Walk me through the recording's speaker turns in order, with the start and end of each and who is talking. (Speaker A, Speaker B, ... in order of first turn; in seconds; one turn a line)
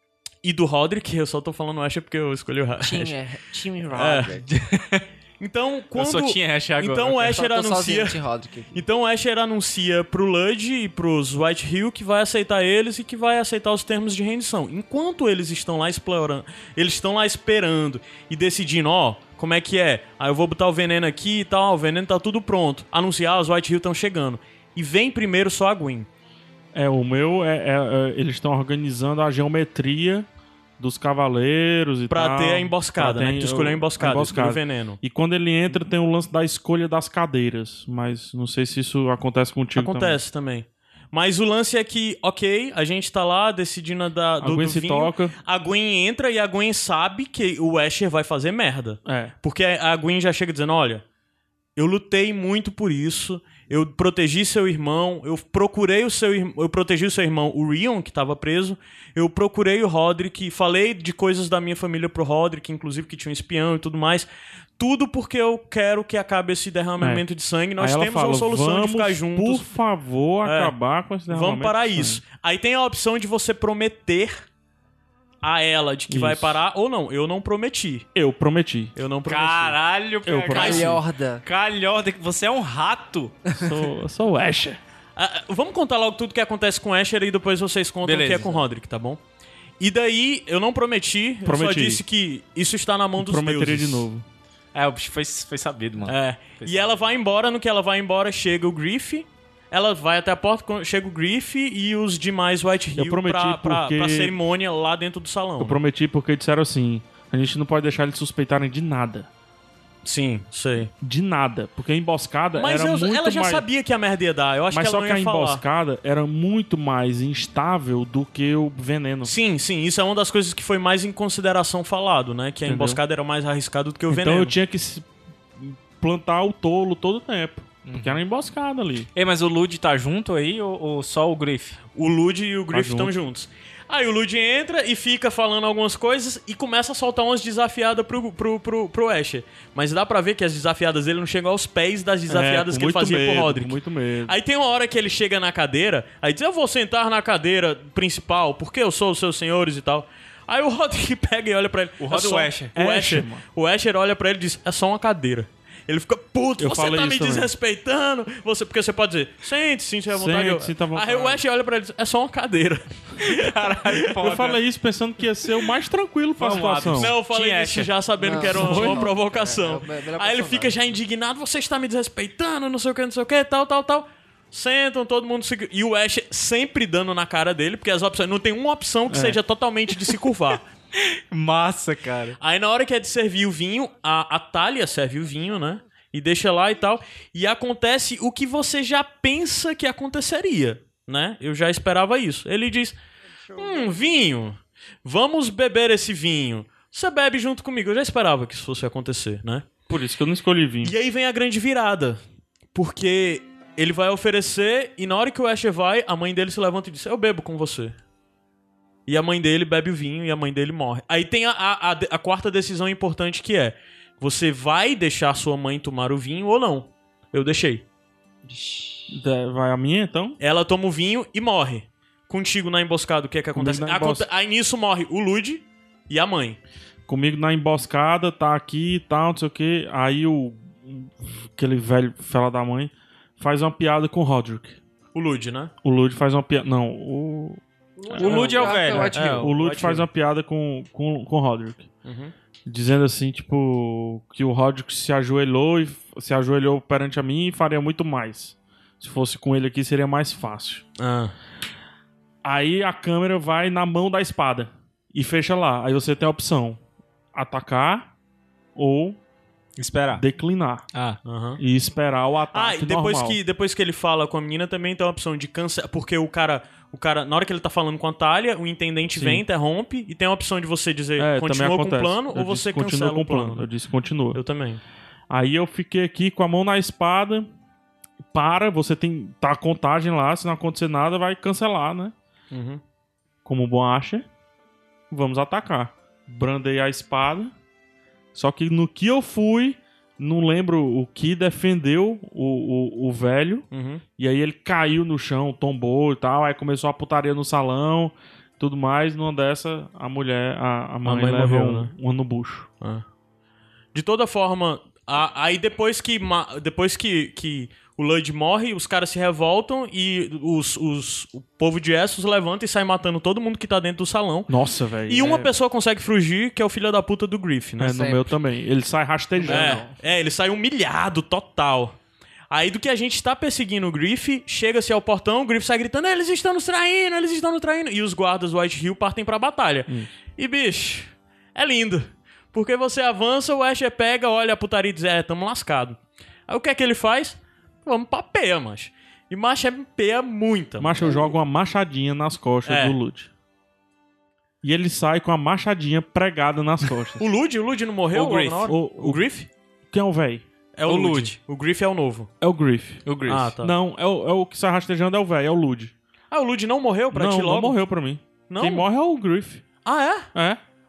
Speaker A: 0.4-3.2
Speaker B: 2.8-4.5
Speaker A: 4.0-4.3
Speaker C: 4.4-5.0
Speaker A: 5.4-8.2
Speaker C: 6.0-7.4
Speaker B: 7.3-8.8
Speaker A: 8.7-26.1
Speaker D: 26.7-30.3
Speaker D: 30.8-40.2
Speaker A: 32.1-35.0
Speaker A: 39.8-51.0
Speaker D: 44.4-45.3
Speaker D: 49.1-49.3
Speaker A: 51.8-69.7
Speaker D: 67.8-72.2
Speaker A: 70.4-70.7
Speaker A: 71.3-74.5
Speaker A: 75.4-78.1
Speaker D: 76.1-76.6
Speaker D: 78.2-78.9
Speaker A: 79.0-79.8
Speaker C: 79.3-83.4
Speaker D: 80.3-81.0
Speaker B: 80.5-81.4
Speaker A: 80.6-80.9
Speaker B: 83.5-83.8
Speaker D: 83.6-84.8
Speaker A: 85.2-89.2
Speaker C: 88.0-88.6
Speaker A: 89.8-94.1
Speaker D: 91.5-92.0
Speaker D: 93.2-94.2
Speaker C: 94.7-97.0
Speaker A: 96.1-105.8
Speaker D: 103.0-104.4
Speaker D: 105.6-109.3
Speaker A: 110.0-110.9
Speaker D: 111.0-113.6
Speaker A: 112.5-115.6
Speaker D: 114.7-119.3
Speaker A: 119.2-124.6
Speaker D: 122.7-123.0
Speaker D: 124.1-125.1
Speaker D: 125.6-129.1
Speaker C: 127.9-128.2
Speaker C: 129.2-131.8
Speaker A: 131.9-164.1
Speaker D: 132.7-133.1
Speaker D: 142.3-144.3
Speaker C: 152.0-152.7
Speaker D: 152.8-153.4
Speaker D: 156.6-157.5
Speaker D: 160.1-161.4
Speaker C: 163.2-164.6
Speaker D: 164.2-167.1
Speaker C: 166.4-167.9
Speaker A: 166.9-180.6
Speaker B: 168.2-170.8
Speaker D: 168.4-169.1
Speaker D: 179.1-179.4
Speaker C: 181.0-182.4
Speaker A: 182.4-193.0
Speaker A: 193.6-199.7
Speaker D: 199.9-200.9
Speaker A: 200.8-202.2
Speaker A: 202.7-208.0
Speaker A: 209.1-217.8
Speaker B: 218.4-219.2
Speaker D: 219.1-220.4
Speaker A: 220.4-226.6
Speaker D: 223.6-224.3
Speaker D: 227.1-234.8
Speaker A: 235.1-235.7
Speaker D: 235.8-241.9
Speaker B: 238.0-239.5
Speaker C: 238.2-239.1
Speaker A: 238.2-240.1
Speaker A: 242.0-242.3
Speaker D: 242.7-250.8
Speaker A: 251.0-251.3
Speaker D: 252.4-256.8
Speaker D: 257.4-258.1
Speaker D: 258.8-259.2
Speaker C: 259.8-260.2
Speaker D: 260.1-260.9
Speaker C: 260.9-261.2
Speaker A: 261.2-261.6
Speaker D: 261.6-263.4
Speaker A: 262.5-273.7
Speaker D: 269.1-269.4
Speaker D: 271.2-274.4
Speaker A: 274.3-274.8
Speaker D: 275.3-277.5
Speaker D: 278.3-282.1
Speaker A: 282.5-282.8
Speaker D: 283.4-284.3
Speaker D: 285.1-287.5
Speaker D: 288.4-302.7
Speaker A: 293.7-294.0
Speaker A: 301.0-301.9
Speaker A: 303.9-314.5
Speaker D: 314.5-315.5
Speaker A: 315.1-318.2
Speaker D: 317.8-319.8
Speaker B: 318.0-318.3
Speaker B: 319.4-319.9
Speaker A: 319.5-322.0
Speaker A: 322.5-341.3
Speaker D: 340.8-343.3
Speaker A: 342.7-343.0
Speaker D: 344.6-347.3
Speaker A: 347.2-349.5
Speaker C: 348.1-348.7
Speaker D: 348.7-349.2
Speaker D: 349.9-350.4
Speaker A: 350.8-352.3
Speaker C: 350.9-351.4
Speaker D: 352.4-353.1
Speaker C: 353.1-353.5
Speaker A: 353.3-353.8
Speaker D: 353.6-355.9
Speaker A: 356.3-357.8
Speaker D: 357.1-359.6
Speaker A: 358.5-358.9
Speaker A: 359.9-360.3
Speaker D: 360.3-360.6